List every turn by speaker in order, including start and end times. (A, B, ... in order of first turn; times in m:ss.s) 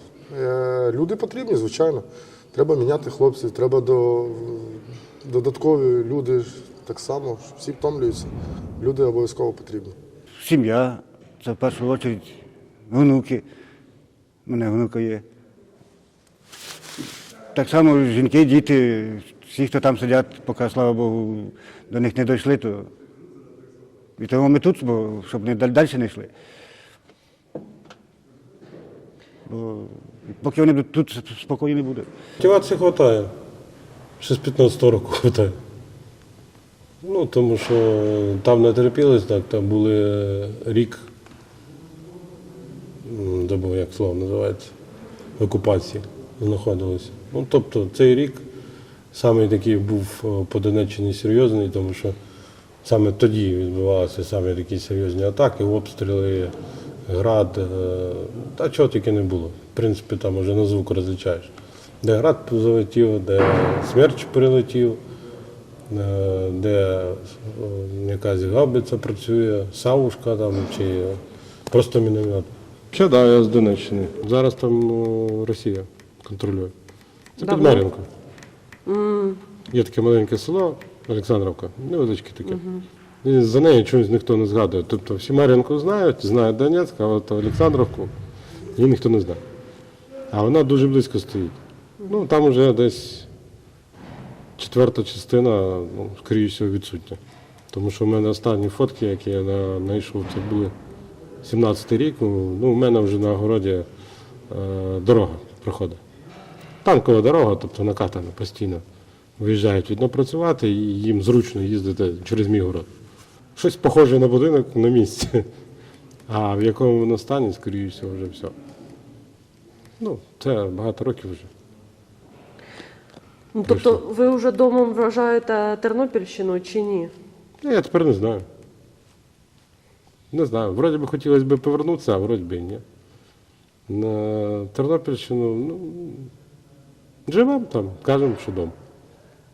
0:00.3-0:10.0 A
0:10.4-0:13.4 B
0:14.4-0:15.2 B
0:17.5-0:22.9 B
0:24.2-0:26.3 B
0:29.5-0:32.1 B
0:32.4-0:33.3 C
0:34.2-0:35.6 C
0:37.0-0:41.1 C
0:43.0-0:44.7 C
0:45.4-0:48.4 C
0:49.1-0:52.2 C
0:52.8-0:56.5 C
0:57.1-1:05.0 C
1:05.9-1:16.7 C
1:17.4-1:18.0 C
1:17.4-1:17.8 D
1:18.8-1:19.4 D
1:19.7-1:22.6 C
1:22.4-1:22.8 D
1:23.2-1:28.1 C
1:28.8-1:29.4 C
1:30.3-1:33.3 C
1:34.6-1:37.2 C
1:37.7-1:40.7 C
1:41.4-1:43.9 C
1:44.5-1:46.0 C
1:46.8-1:48.8 C
1:49.4-1:52.9 C
1:53.6-1:55.5 C
1:56.3-1:58.5 C
2:00.0-2:01.5 C
2:03.5-2:07.1 D
2:03.7-2:04.0 C
2:07.6-2:08.4 C
2:10.3-2:12.8 C
2:13.9-2:16.3 C
2:17.3-2:18.7 C